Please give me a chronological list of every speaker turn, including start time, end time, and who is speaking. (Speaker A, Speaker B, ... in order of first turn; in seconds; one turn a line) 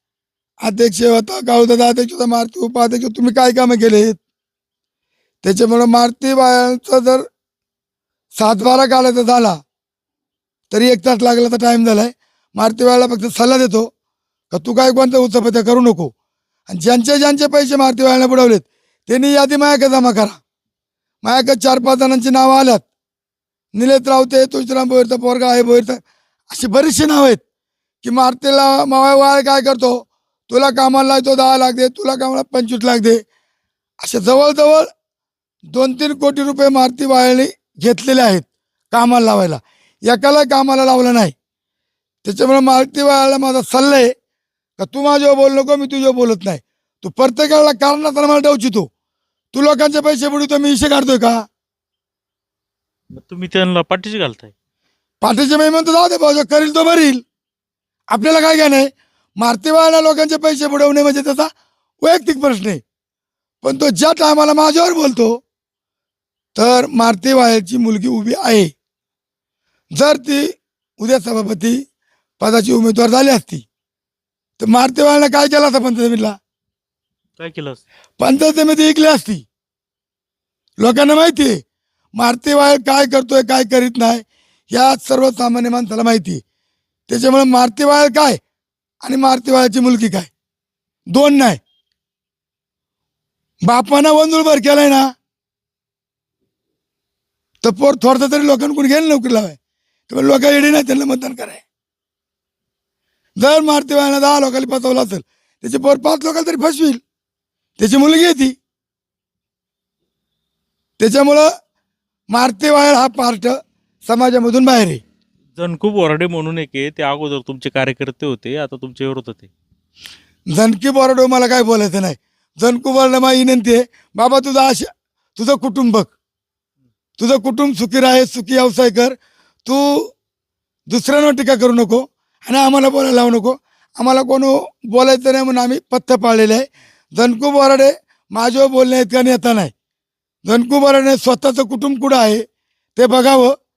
Speaker A: 0.6-4.2
Speaker A: 5.4-7.2
Speaker A: 8.3-9.6
Speaker A: 10.7-13.9
Speaker A: 14.5-16.1
Speaker A: 16.7-20.4
Speaker A: 21.2-22.8
Speaker A: 23.8-27.4
Speaker A: 28.0-33.2
Speaker A: 34.0-34.9
Speaker A: 35.7-41.3
Speaker A: 42.2-44.1
Speaker A: 44.8-48.9
Speaker A: 49.5-51.4
Speaker B: 53.1-54.5
Speaker A: 55.2-57.2
Speaker A: 58.1-61.5
Speaker A: 62.0-62.8
Speaker A: 63.6-65.4
Speaker A: 66.6-68.7
Speaker A: 70.0-71.8
Speaker A: 72.4-73.6
Speaker A: 74.6-76.4
Speaker B: 77.4-77.8
Speaker A: 78.2-79.5
Speaker A: 80.8-81.6
Speaker A: 82.2-86.4
Speaker A: 87.1-88.4
Speaker A: 89.0-90.3
Speaker A: 91.1-91.6
Speaker A: 93.7-95.1
Speaker A: 97.6-99.6
Speaker A: 100.1-101.6
Speaker A: 103.4-107.0
Speaker A: 107.8-108.5
Speaker A: 111.0-111.5
Speaker A: 112.3-115.0
Speaker B: 115.6-119.5
Speaker A: 120.5-126.1
Speaker A: 127.2-130.1
Speaker A: 130.9-139.7
Speaker A: 140.4-142.4
Speaker A: 143.0-143.5